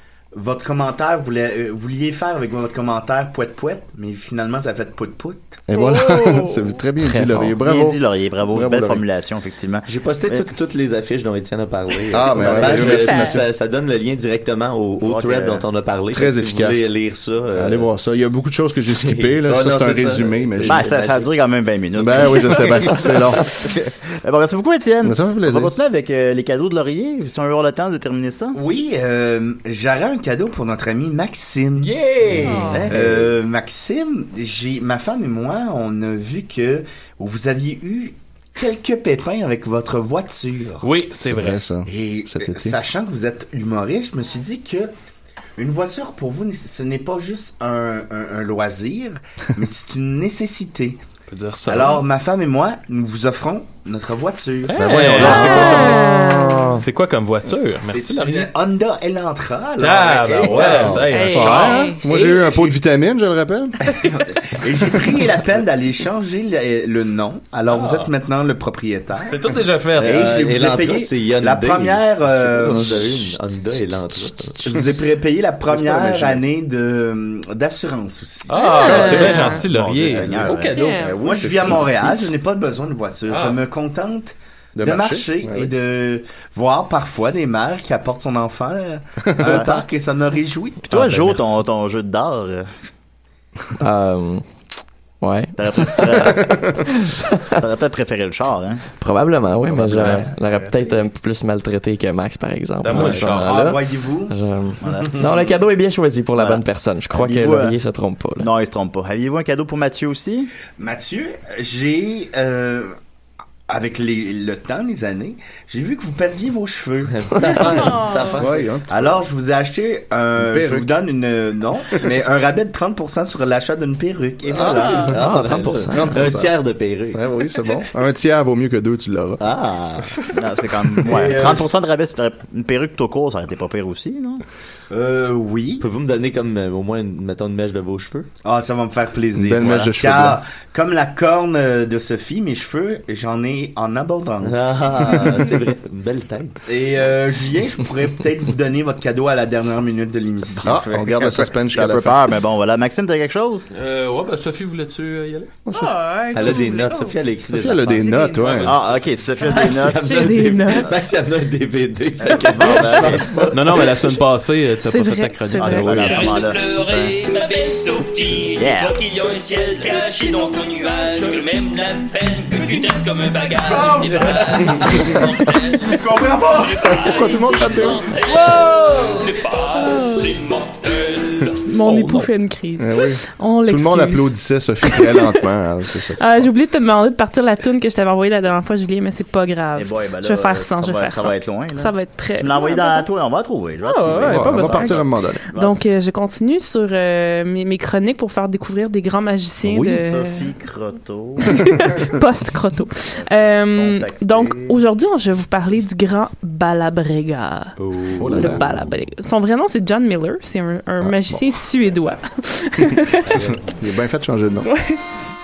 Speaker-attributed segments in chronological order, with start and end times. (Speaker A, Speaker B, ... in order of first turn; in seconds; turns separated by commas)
Speaker A: 0.3-5.6, Speaker B: 5.7-9.0, Speaker C: 5.7-6.8, Speaker D: 7.1-10.5, Speaker E: 9.8-17.9, Speaker B: 12.1-13.4, Speaker C: 12.6-13.4, Speaker D: 15.0-15.6, Speaker B: 16.1-16.9, Speaker B: 17.5-20.9, Speaker E: 18.7-21.3, Speaker D: 20.6-28.6, Speaker B: 22.0-23.5, Speaker B: 25.0-25.7, Speaker A: 28.5-40.9, Speaker F: 31.8-32.8, Speaker C: 32.4-32.8, Speaker E: 32.7-33.3, Speaker F: 40.8-41.6, Speaker B: 41.2-42.8, Speaker A: 41.9-44.9, Speaker A: 45.6-51.0, Speaker F: 51.3-52.0, Speaker A: 51.7-55.6, Speaker F: 54.7-58.5, Speaker B: 54.8-56.3, Speaker C: 55.4-56.7, Speaker A: 57.8-62.7, Speaker F: 59.8-61.9, Speaker B: 60.6-63.9, Speaker C: 60.7-62.0, Speaker A: 63.8-73.3, Speaker F: 67.7-68.1, Speaker F: 69.2-70.2, Speaker E: 70.0-74.7, Speaker A: 74.6-79.5, Speaker E: 75.7-76.4, Speaker F: 78.5-81.1, Speaker C: 78.5-79.6, Speaker D: 78.9-80.8, Speaker C: 80.6-81.2, Speaker B: 81.0-82.0, Speaker A: 81.2-91.6, Speaker F: 83.3-83.6, Speaker B: 84.8-85.7, Speaker B: 89.3-89.6, Speaker D: 89.4-89.8, Speaker D: 90.9-92.7, Speaker G: 93.8-94.4, Speaker G: 95.2-97.3, Speaker D: 95.6-96.7, Speaker B: 96.4-96.7, Speaker D: 97.5-98.8, Speaker G: 99.0-108.5, Speaker A: 99.8-100.9, Speaker D: 99.9-100.2, Speaker F: 102.8-103.7, Speaker A: 102.9-104.3, Speaker D: 104.8-105.3, Speaker A: 105.0-105.4, Speaker D: 106.3-107.8, Speaker D: 108.4-110.5, Speaker A: 110.8-112.9, Speaker A: 113.7-117.9, Speaker E: 117.1-118.5, Speaker C: 117.4-118.4, Speaker B: 118.3-119.2, Speaker A: 118.9-125.2, Speaker B: 120.3-120.9, Speaker B: 124.5-125.2, Speaker C: 124.7-125.1, Speaker E: 125.1-127.2, Speaker G: 125.1-126.1, Speaker B: 125.9-126.6, Speaker B: 127.1-129.4, Speaker E: 129.4-130.1, Speaker D: 130.3-134.4, Speaker A: 131.0-131.7, Speaker A: 134.9-135.8, Speaker E: 135.8-138.3, Speaker A: 138.4-145.4, Speaker B: 139.3-140.4, Speaker E: 144.4-146.6, Speaker A: 146.7-150.9, Speaker B: 150.6-152.3, Speaker D: 150.6-153.7, Speaker F: 153.7-155.6, Speaker B: 155.7-155.9, Speaker C: 155.7-157.2, Speaker E: 156.3-158.2, Speaker B: 157.5-158.8, Speaker C: 158.0-158.6, Speaker F: 158.4-159.0, Speaker D: 158.6-160.2, Speaker C: 159.4-161.0, Speaker E: 159.4-164.1, Speaker D: 162.2-163.4, Speaker C: 162.3-163.1, Speaker F: 163.5-166.4, Speaker C: 164.8-166.3, Speaker D: 165.6-167.1, Speaker B: 165.7-166.1, Speaker H: 166.2-175.8, Speaker D: 168.5-169.0, Speaker A: 173.7-175.2, Speaker A: 175.8-176.9, Speaker H: 176.3-181.5, Speaker B: 176.9-178.1, Speaker C: 179.8-180.3, Speaker C: 181.6-185.4, Speaker F: 181.8-182.3, Speaker B: 182.8-186.5, Speaker C: 186.2-193.1, Speaker D: 189.8-195.8, Speaker C: 193.8-200.5, Speaker B: 194.1-195.4, Speaker B: 199.6-200.0, Speaker D: 199.8-201.5, Speaker C: 201.4-207.7, Speaker D: 203.3-204.8, Speaker E: 207.8-208.6, Speaker B: 208.2-208.8, Speaker C: 208.3-213.4, Speaker B: 211.0-211.4, Speaker E: 213.3-213.7, Speaker B: 213.3-214.7, Speaker C: 214.6-215.0